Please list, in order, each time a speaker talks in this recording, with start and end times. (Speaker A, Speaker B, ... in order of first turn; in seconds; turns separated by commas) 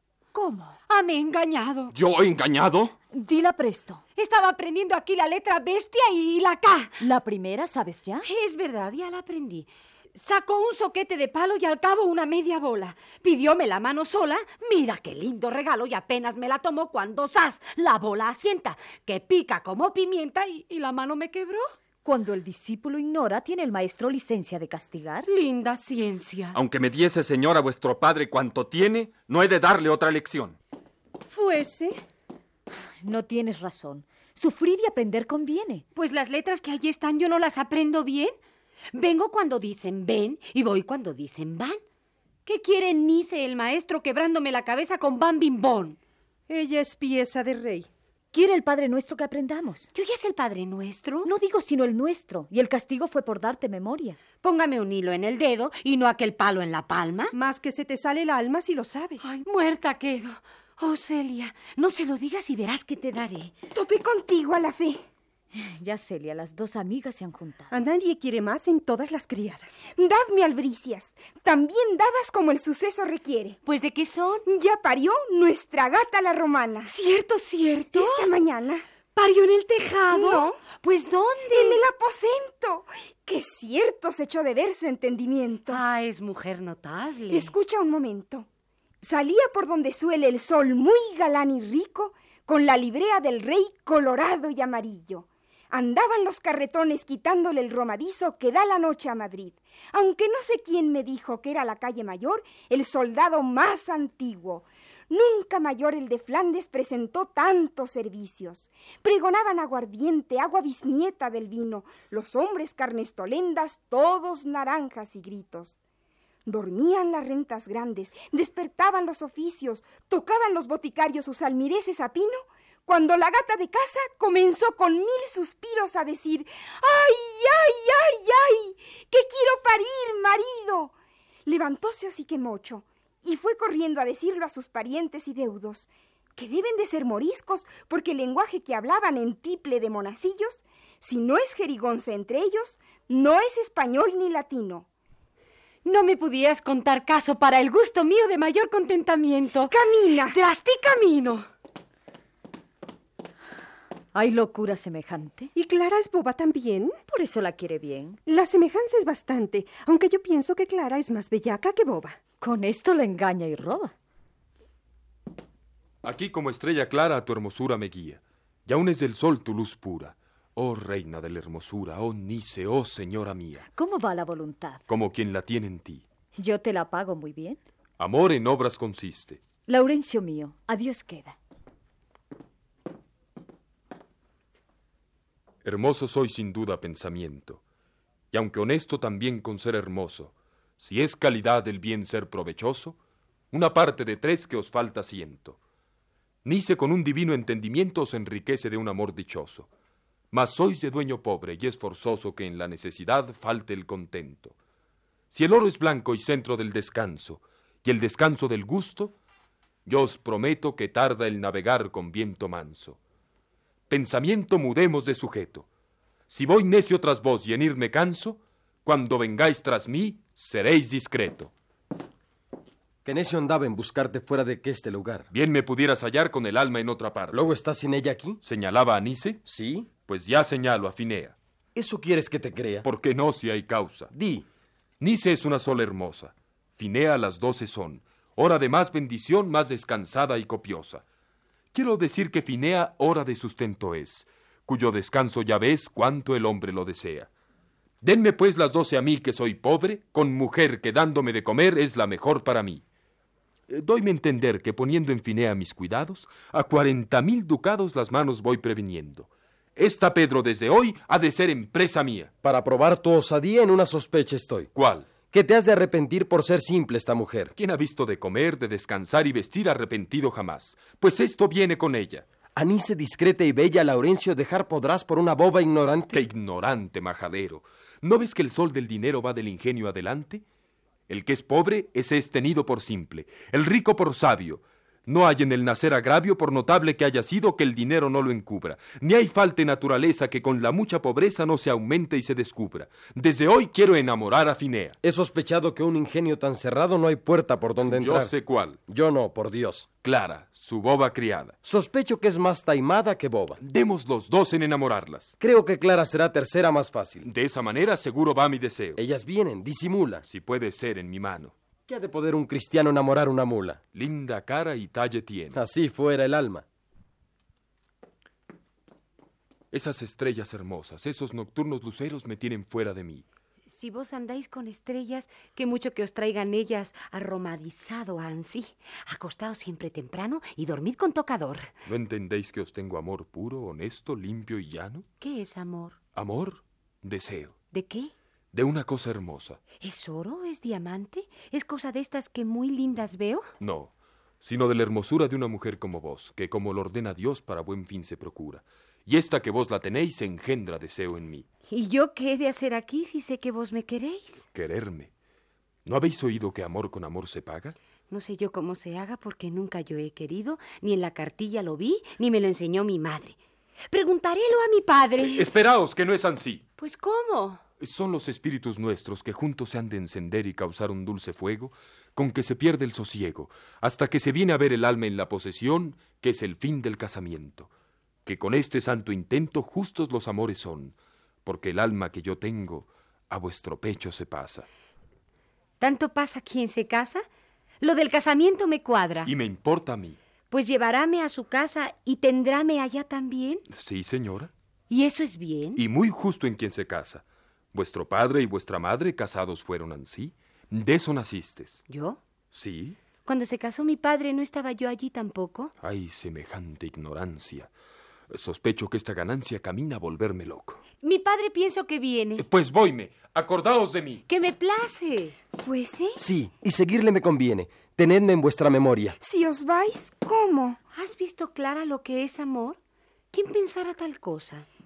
Speaker A: 0.3-0.8, Speaker B: 0.9-1.9, Speaker C: 1.9-3.0, Speaker A: 3.1-4.0, Speaker B: 4.2-7.0, Speaker A: 7.0-8.3, Speaker B: 8.2-21.7, Speaker A: 22.0-25.3, Speaker B: 25.3-26.6, Speaker C: 26.6-30.6, Speaker D: 31.3-32.0, Speaker A: 33.0-35.9, Speaker B: 36.0-38.4, Speaker B: 38.9-41.8, Speaker B: 42.5-46.0, Speaker D: 46.5-47.9, Speaker A: 48.3-49.9, Speaker B: 49.9-51.3, Speaker A: 51.2-54.2, Speaker B: 54.4-57.4, Speaker D: 57.3-59.2, Speaker B: 59.2-63.5, Speaker E: 63.7-65.0, Speaker A: 65.5-67.7, Speaker D: 67.7-69.9, Speaker E: 69.9-73.6, Speaker B: 73.7-74.5, Speaker E: 74.5-76.9, Speaker B: 76.8-78.3, Speaker E: 77.9-78.8, Speaker B: 79.1-81.8, Speaker E: 80.1-80.7, Speaker E: 81.5-85.8, Speaker B: 85.7-87.5, Speaker E: 87.3-88.5, Speaker E: 89.0-115.8, Speaker E: 116.5-130.9, Speaker E: 131.5-144.9, Speaker B: 145.8-149.7, Speaker E: 149.7-150.4, Speaker B: 150.3-151.5, Speaker A: 154.1-155.5, Speaker D: 155.6-157.0, Speaker A: 157.1-158.2, Speaker D: 158.3-162.2, Speaker A: 162.4-163.9, Speaker F: 166.0-173.7, Speaker A: 173.7-174.8, Speaker F: 174.9-176.0, Speaker A: 176.3-177.6, Speaker F: 178.0-179.4, Speaker A: 179.7-181.4, Speaker F: 185.6-187.6, Speaker F: 188.3-193.0, Speaker F: 193.5-195.6, Speaker F: 196.4-199.7, Speaker F: 200.3-204.5, Speaker F: 205.3-209.2, Speaker F: 209.9-213.0, Speaker F: 213.9-215.7, Speaker F: 216.3-221.5, Speaker G: 223.1-225.3, Speaker F: 225.3-227.4, Speaker G: 227.3-228.4, Speaker F: 228.4-229.4, Speaker G: 229.4-229.9, Speaker F: 230.1-231.3, Speaker G: 231.8-232.9, Speaker F: 232.8-234.1, Speaker G: 234.1-234.4, Speaker F: 235.0-241.0, Speaker F: 241.7-247.3, Speaker F: 248.0-252.8, Speaker F: 253.7-262.3, Speaker G: 262.4-264.7, Speaker F: 264.7-265.1, Speaker G: 265.2-267.5, Speaker F: 267.6-272.2, Speaker G: 272.6-276.2, Speaker F: 276.1-280.4, Speaker F: 281.1-295.0, Speaker G: 295.0-298.3, Speaker F: 297.8-298.8, Speaker G: 298.9-299.9, Speaker F: 300.0-301.6, Speaker G: 301.6-303.6, Speaker F: 303.6-305.3, Speaker G: 305.4-307.3, Speaker F: 307.2-309.0, Speaker G: 309.0-310.2, Speaker F: 310.3-311.5, Speaker G: 311.9-313.8, Speaker F: 313.9-315.6, Speaker G: 315.5-316.6, Speaker F: 319.7-323.2, Speaker B: 323.7-331.7, Speaker F: 331.9-335.1, Speaker B: 335.2-336.0, Speaker F: 336.1-337.6, Speaker B: 337.7-338.1, Speaker F: 338.5-339.6, Speaker B: 339.8-343.5, Speaker F: 343.6-351.5, Speaker B: 351.7-354.4, Speaker F: 354.5-355.1, Speaker F: 355.9-357.8, Speaker B: 358.1-363.4, Speaker B: 363.9-365.5, Speaker F: 365.2-366.6, Speaker B: 366.8-367.6, Speaker F: 367.8-377.7, Speaker F: 378.3-384.7, Speaker B: 385.8-387.3, Speaker B: 387.8-389.3, Speaker F: 389.2-390.2, Speaker B: 390.5-393.7, Speaker F: 393.7-394.5, Speaker B: 394.9-395.8, Speaker F: 395.8-401.8, Speaker B: 401.9-402.2, Speaker F: 402.5-403.0, Speaker B: 403.2-405.7, Speaker F: 405.8-407.7, Speaker F: 408.3-410.8, Speaker B: 411.0-412.5, Speaker F: 412.4-414.2, Speaker B: 414.3-415.4, Speaker E: 415.6-416.2, Speaker G: 416.2-419.2, Speaker E: 419.2-420.8, Speaker B: 420.9-422.8, Speaker B: 423.3-424.7